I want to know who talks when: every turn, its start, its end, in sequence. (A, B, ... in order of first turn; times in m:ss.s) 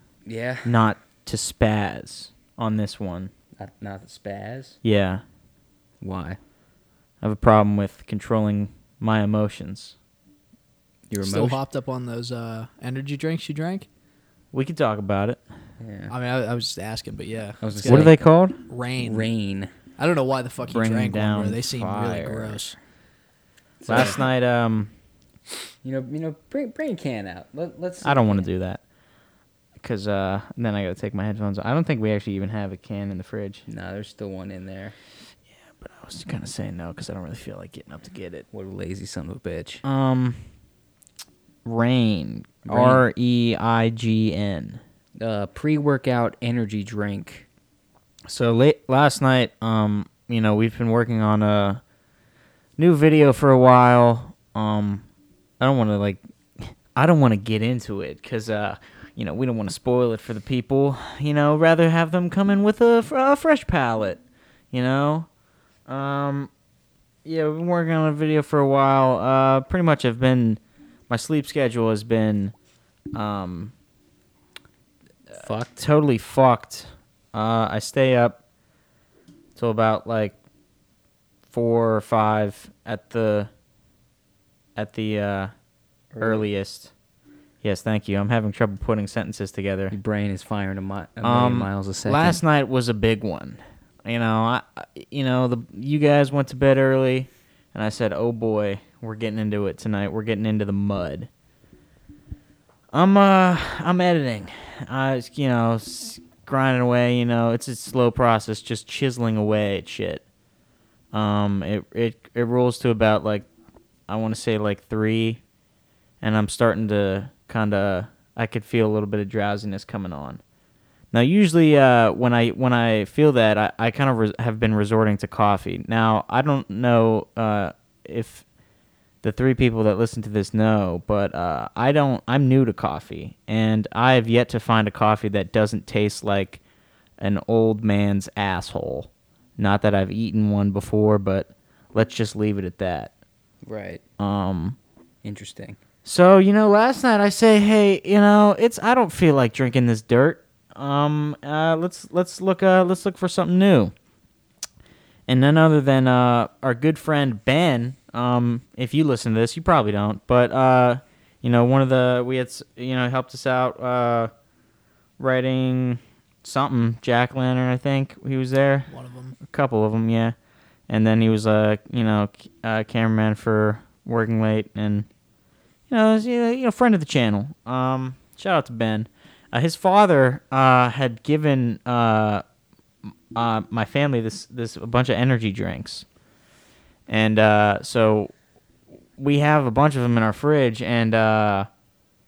0:00.2-0:00.7 A
0:00.6-0:03.3 B
0:03.6-0:04.8 A
0:04.8-0:05.2 B
0:06.0-0:06.4 A
0:07.2-0:10.0 B
0:11.1-0:11.6 A
0:11.2-0:13.9 C
0:14.5-0:15.4 B
0:15.8-0:16.1 A
0:16.1-0:18.1 C
0:17.6-0:18.2 A
0:17.8-0:18.6 B
0:18.7-0:19.3 C
0:19.0-0:19.7 A
0:20.0-0:22.8 C
0:20.6-0:22.7 B
0:23.8-0:24.2 A
0:23.9-0:24.9 B
0:25.8-0:28.5 A
0:28.0-0:28.8 B
0:29.8-0:33.6 B
0:33.7-0:35.0 A
0:35.8-0:38.5 B
0:38.5-0:39.8 A
0:39.8-0:40.4 B
0:41.6-0:44.8 B
0:42.7-0:43.0 A
0:45.2-0:47.5 A
0:48.3-0:51.8 B
0:52.8-0:55.0 B
0:55.6-1:04.2 B
1:04.7-1:05.3 B
1:05.9-1:06.5 B
1:07.2-1:12.5 B
1:13.1-1:13.7 B
1:15.4-1:15.8 A
1:15.8-1:18.4 B
1:19.6-1:20.4 B
1:21.5-1:23.5 B
1:24.8-1:25.5 B
1:26.1-1:26.5 A
1:26.2-1:26.9 B
1:27.6-1:30.0 B
1:29.9-1:32.4 A
1:31.2-1:41.3 B
1:42.9-1:50.2 B
1:51.1-1:53.5 B
1:54.1-1:55.4 B
1:56.2-2:00.4 B
2:01.1-2:08.4 B
2:09.2-2:16.6 B
2:17.2-2:23.1 B
2:23.6-2:24.0 A
2:24.2-2:24.8 B
2:25.2-2:25.8 A
2:26.0-2:33.9 B
2:35.3-2:44.3 B
2:45.2-2:48.9 B
2:48.9-2:49.4 C
2:49.4-2:50.4 B
2:50.9-2:55.1 B
2:55.9-3:02.4 B
3:03.3-3:06.1 B
3:07.1-3:08.3 B
3:09.2-3:11.7 B